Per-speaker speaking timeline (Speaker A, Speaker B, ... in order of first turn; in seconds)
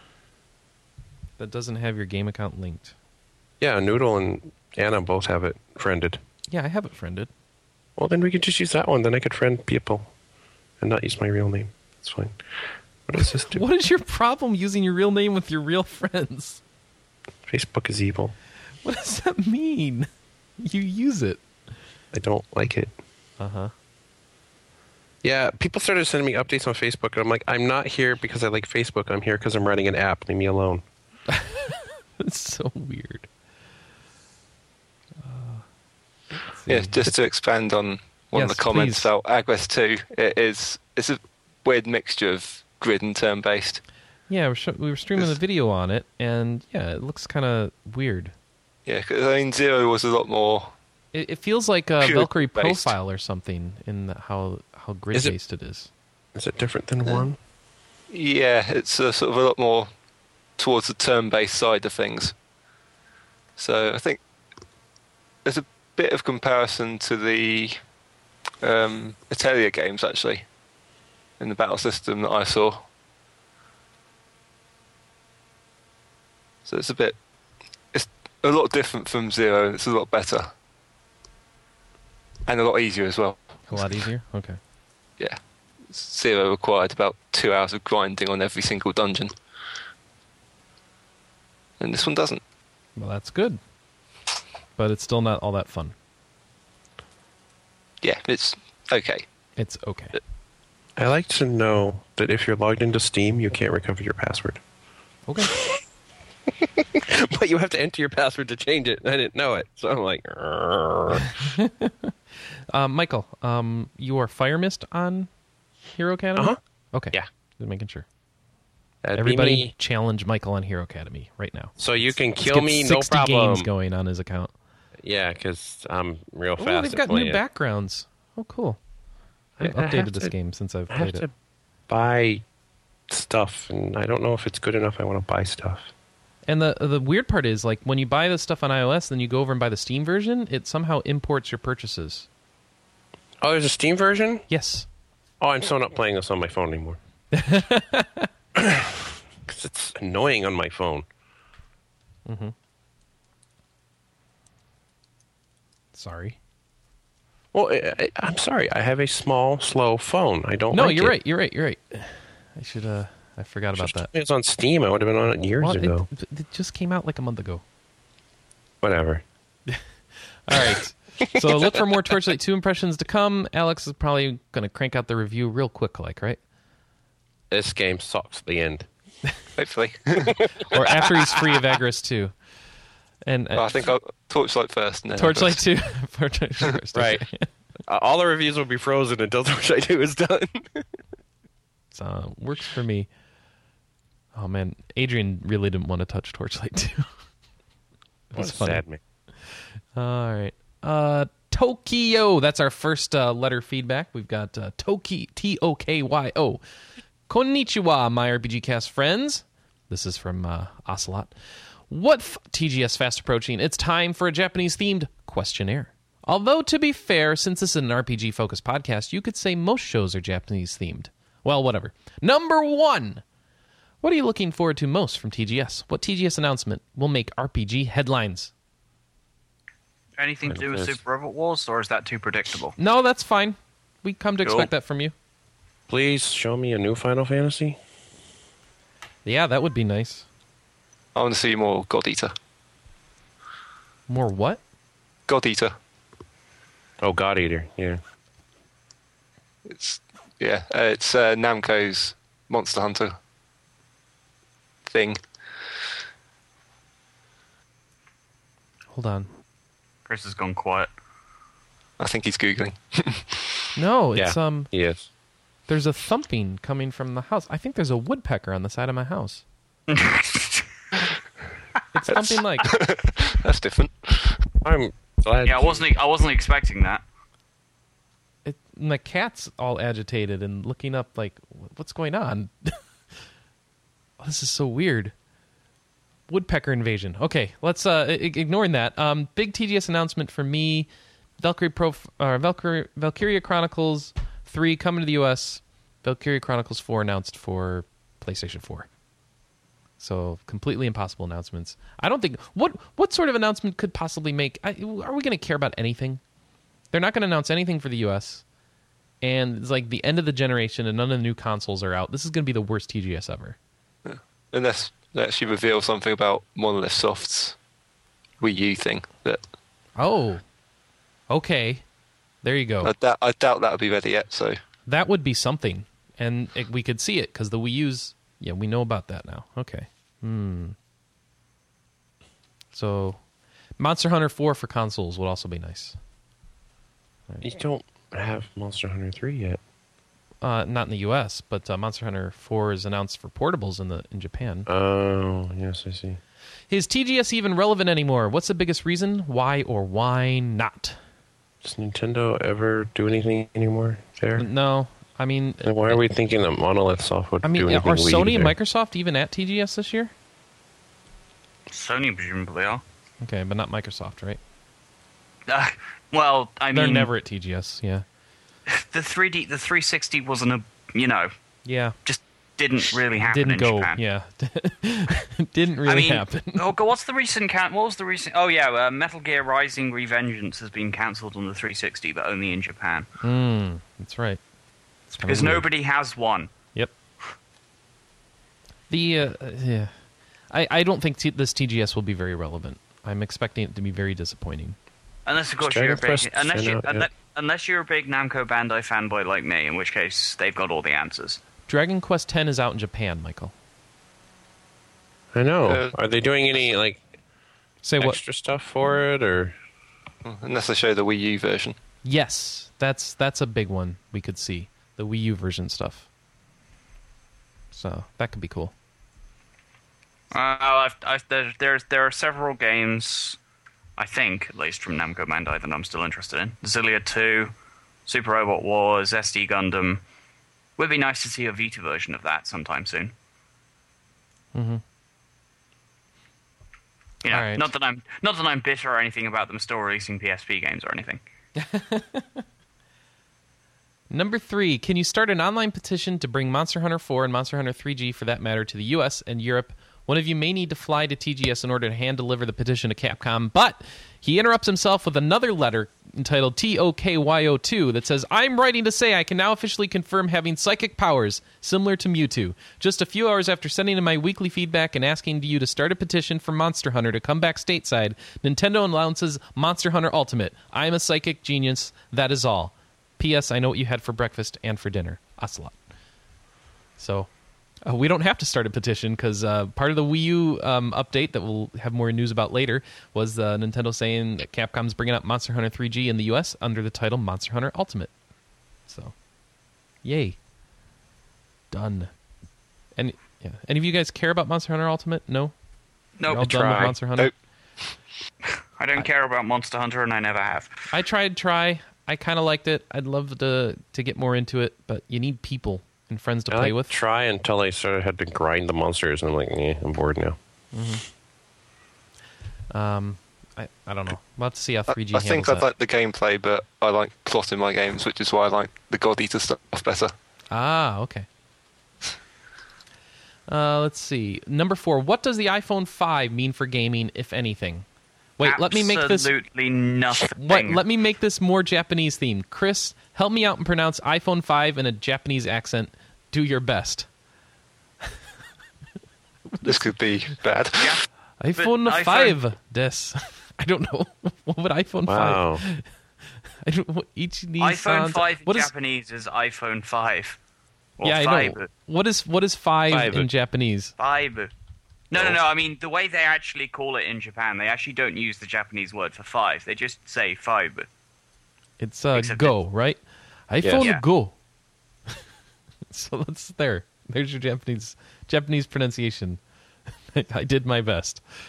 Speaker A: 1.4-3.0, 6.5-7.3, 13.2-16.6, 18.8-21.4, 23.4-23.7, 31.3-33.3, 35.2-35.6, 36.4-37.1, 38.3-39.1, 44.3-48.3, 51.1-55.9, 83.7-84.6, 93.0-93.6, 94.8-95.9, 99.6-100.2, 105.3-105.6, 111.3-112.1, 112.7-115.3, 115.9-118.1, 119.2-121.8, 122.4-124.5, 126.6-128.8, 129.6-131.2, 136.5-142.3, 144.5-144.9, 147.3-148.3, 152.3-152.5, 155.9-156.4, 160.7-164.1, 165.6-167.6, 170.5-176.4, 180.7-182.3, 183.3-183.8, 185.2-187.5, 191.9-193.1, 194.3-197.1, 198.3-198.8, 200.0-206.6, 207.3-211.3, 211.9-223.2, 224.0-228.5, 232.8-235.1, 239.2-240.3, 244.1-244.6, 258.9-259.3, 263.8-264.7, 265.7-269.4, 271.9-272.7, 278.4-282.8, 284.2-285.1, 286.3-290.9, 291.4-298.9, 300.0-306.2, 306.9-308.4, 309.2-313.6, 320.0-320.4, 321.3-321.8, 322.4-322.9, 324.9-330.8, 332.7-333.2, 333.8-336.0, 340.4-344.7, 346.7-351.0, 354.4-356.0, 357.4-360.1, 363.2-364.4, 366.7-368.1, 371.7-372.0, 373.2-376.7, 383.2-384.4, 385.1-385.7, 388.9-389.9, 390.5-394.8, 401.7-403.5, 407.8-408.2, 412.0-416.1, 417.7-418.7, 434.5-434.8, 437.3-437.7, 441.6-442.4, 444.1-475.8, 477.0-477.3, 477.9-488.1, 488.9-489.1, 490.0-490.4, 491.7-492.1, 493.0-495.5, 496.3-497.3, 500.9-506.9, 510.7-511.0, 512.7-515.7, 520.5-521.3, 523.5-527.9, 528.4-529.3, 530.4-537.1, 539.5-539.9, 541.4-545.9, 546.6-548.7, 551.0-553.9, 561.8-564.4, 565.9-569.4, 570.1-571.2
Speaker B: 3.6-6.2, 8.0-10.1, 10.8-12.4, 13.1-13.6, 17.5-18.3, 22.1-22.9, 25.2-30.8, 56.4-57.4, 101.0-104.6, 105.5-105.8, 106.6-111.3, 119.0-119.7, 121.8-123.7, 125.0-127.4, 129.6-130.3, 130.9-131.3, 131.9-132.4, 133.1-135.9, 143.4-144.5, 145.4-147.0, 148.6-151.1, 157.5-161.2, 163.8-166.1, 168.8-169.2, 171.2-171.8, 177.5-178.9, 180.2-181.2, 186.9-187.3, 187.8-190.9, 198.3-199.0, 230.5-231.0, 235.9-237.8, 247.0-248.0, 264.2-265.1, 274.6-275.9, 337.4-339.6, 344.7-346.2, 351.6-354.5, 355.6-358.6, 395.6-397.1, 405.3-407.0, 408.0-409.6, 496.3-497.0, 506.5-510.4, 545.1-545.6, 552.9-553.3, 555.1-555.4, 563.6-563.9
Speaker C: 36.7-43.8, 48.9-50.7, 52.0-53.0, 58.1-59.9, 60.6-62.3, 63.6-64.2, 65.5-67.8, 68.6-70.5, 71.4-72.8, 76.7-77.2, 77.9-80.5, 82.5-83.5, 85.9-89.3, 91.8-92.4, 98.0-99.2, 179.6-180.4, 183.6-185.6, 241.2-242.3, 245.3-245.7, 249.7-253.2, 254.9-255.2, 262.0-263.6, 272.1-274.4, 314.1-317.6, 318.4-319.4, 322.8-324.6, 405.7-405.9, 410.2-411.8, 514.9-520.1, 539.6-540.9
Speaker D: 230.2-232.8, 234.4-234.7, 260.1-260.9, 269.9-270.7, 275.4-277.0, 361.7-362.8, 365.5-367.1, 368.7-371.3, 372.1-374.0, 375.9-383.1, 385.2-386.5, 395.3-401.4, 420.3-423.4, 424.0-427.5, 428.1-430.0, 430.8-433.1, 437.2-441.2, 496.2-496.5, 498.8-500.9, 528.4-530.8, 540.8-541.0, 541.6-542.4, 547.6-550.4, 551.0-551.7, 554.0-554.5, 555.1-560.9, 562.1-562.5